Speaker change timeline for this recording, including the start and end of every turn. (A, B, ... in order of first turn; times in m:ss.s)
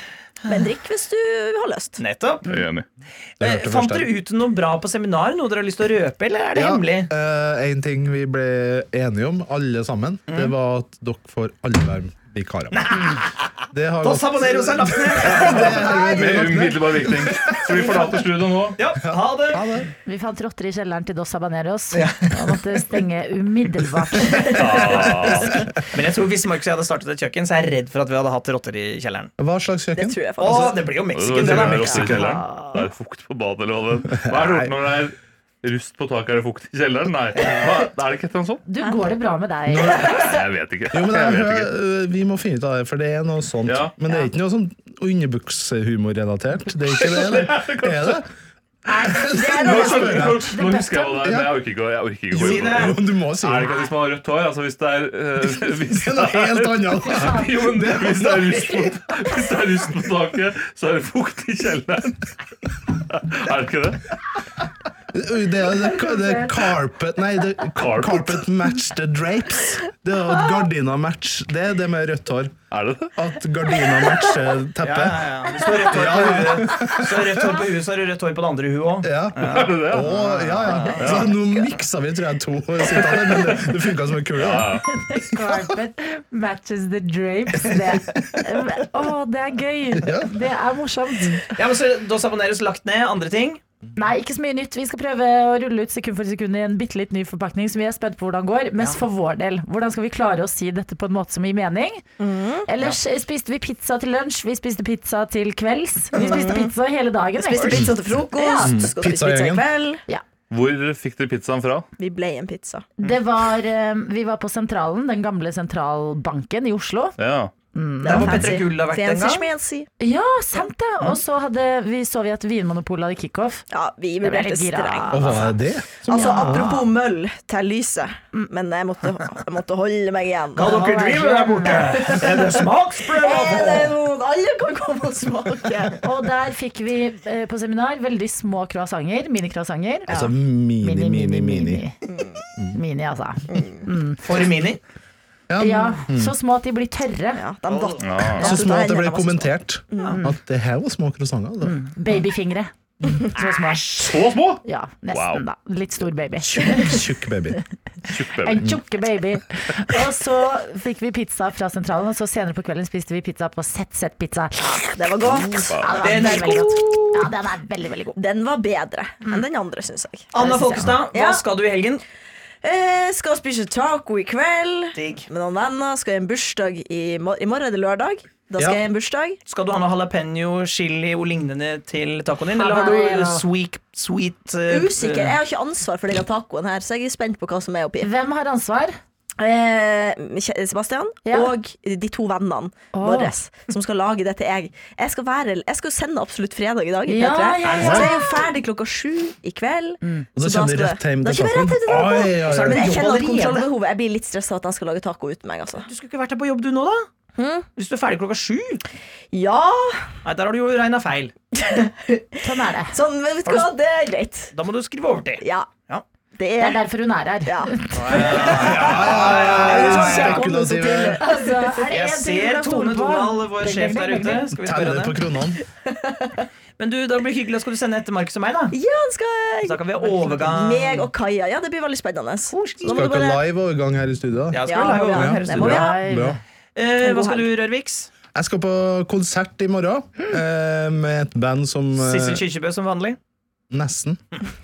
0:00.5-0:02.0 A
0:02.0-0:02.6 B
0:02.5-0:02.8 C
0:03.4-0:04.1 D
0:03.4-0:07.1 B
0:06.6-0:12.9 D
0:10.3-0:10.5 B
0:12.7-0:13.5 B
0:13.7-0:18.2 D
0:14.0-0:16.0 B
0:15.5-0:18.8 C
0:18.8-0:19.7 B
0:19.0-0:19.9 D
0:20.0-0:24.6 E
0:21.9-0:22.3 B
0:24.4-0:25.0 A
0:24.5-0:25.6 C
0:25.0-0:25.6 D
0:25.9-0:29.3 B
0:29.4-0:30.8 D
0:30.0-0:30.9 A
0:30.4-0:32.3 B
0:31.1-0:38.6 C
0:31.3-0:32.4 D
0:32.3-0:32.8 E
0:34.1-0:34.7 D
0:38.6-0:40.3 E
0:38.8-0:39.1 A
0:39.7-0:40.1 D
0:39.9-0:40.4 A
0:40.1-0:41.7 C
0:40.9-0:48.3 D
0:43.6-0:43.9 C
0:46.9-0:48.2 C
0:48.9-0:51.3 E
0:48.9-0:50.5 D
0:49.4-0:50.2 A
0:49.6-1:02.2 C
0:51.2-0:51.6 D
0:52.3-0:53.7 D
0:52.4-0:53.0 B
0:55.6-0:59.0 D
0:57.0-0:57.6 E
1:02.9-1:04.0 C
1:05.1-1:12.6 D
1:05.9-1:06.6 E
1:07.8-1:08.4 C
1:12.7-1:13.1 C
1:13.2-1:17.5 D
1:14.8-1:21.2 B
1:19.0-1:25.6 D
1:19.4-1:21.3 C
1:23.3-1:23.6 C
1:24.4-1:24.9 C
1:24.9-1:31.5 E
1:30.0-1:30.4 D
1:31.6-1:33.6 B
1:34.0-1:42.0 E
1:42.2-1:42.7 A
1:42.7-1:48.8 E
1:46.1-1:46.7 A
1:47.4-1:50.0 A
1:48.6-1:49.6 D
1:50.5-1:51.9 C
1:52.0-1:52.9 A
1:53.0-1:57.2 E
1:57.2-1:57.5 C
1:57.7-1:58.6 E
1:58.0-1:59.4 B
1:58.0-1:59.9 A
2:00.0-2:03.6 E
2:03.7-2:05.5 A
2:04.2-2:05.6 E
2:05.1-2:06.8 D
2:06.1-2:10.9 A
2:06.1-2:06.9 E
2:10.6-2:14.0 B
2:10.6-2:12.2 E
2:11.7-2:12.5 A
2:13.2-2:16.0 A
2:16.0-2:20.2 E
2:20.1-2:21.8 D
2:20.8-2:22.0 E
2:22.1-2:22.4 A
2:22.7-2:24.2 E
2:23.5-2:23.8 A
2:24.2-2:24.8 B
2:25.5-2:26.3 D
2:25.6-2:27.4 E
2:27.4-2:30.2 A
2:27.7-2:28.1 B
2:28.0-2:28.6 C
2:28.4-2:31.8 D
2:30.1-2:30.4 E
2:31.6-2:37.1 E
2:34.0-2:34.6 C
2:35.1-2:35.4 C
2:36.4-2:37.6 D
2:38.1-2:38.8 C
2:38.4-2:48.2 E
2:44.7-2:47.1 A
2:45.7-2:46.0 C
2:46.0-2:47.1 B
2:48.2-2:51.4 A
2:50.3-2:52.0 B
2:50.4-2:50.9 E
2:52.6-2:59.4 A
2:54.9-2:55.3 B
2:59.5-3:05.4 B
3:02.5-3:03.4 E
3:04.7-3:08.1 A
3:08.0-3:09.0 E
3:09.4-3:25.9 A
3:11.2-3:11.5 E
3:12.9-3:13.4 E
3:17.1-3:18.5 E
3:17.6-3:18.1 B
3:20.4-3:22.9 D
3:22.4-3:23.7 B
3:25.8-3:27.1 B
3:27.4-3:27.7 A
3:27.8-3:28.8 B
3:29.3-3:30.1 A
3:30.2-3:31.3 B
3:31.5-3:32.4 A
3:32.4-3:33.0 E
3:32.9-3:34.5 A
3:33.4-3:33.7 B
3:34.5-3:36.0 B
3:35.4-3:35.7 A
3:36.4-3:36.8 A
3:36.6-3:38.6 E
3:37.5-3:41.5 A
3:37.9-3:40.4 B
3:38.5-3:41.2 D
3:41.2-3:44.5 E
3:41.9-3:45.2 B
3:44.6-3:45.6 D
3:45.8-3:46.5 A
3:46.8-3:48.8 B
3:48.7-3:53.4 A
3:49.6-3:51.1 B
3:52.5-3:53.0 B
3:52.8-3:56.4 D
3:54.5-3:55.9 B
3:54.7-3:56.0 A
3:55.6-3:56.4 E
3:56.8-3:58.1 B
3:57.0-3:57.5 A
3:58.3-4:02.4 D
4:02.0-4:03.2 B
4:03.7-4:04.2 D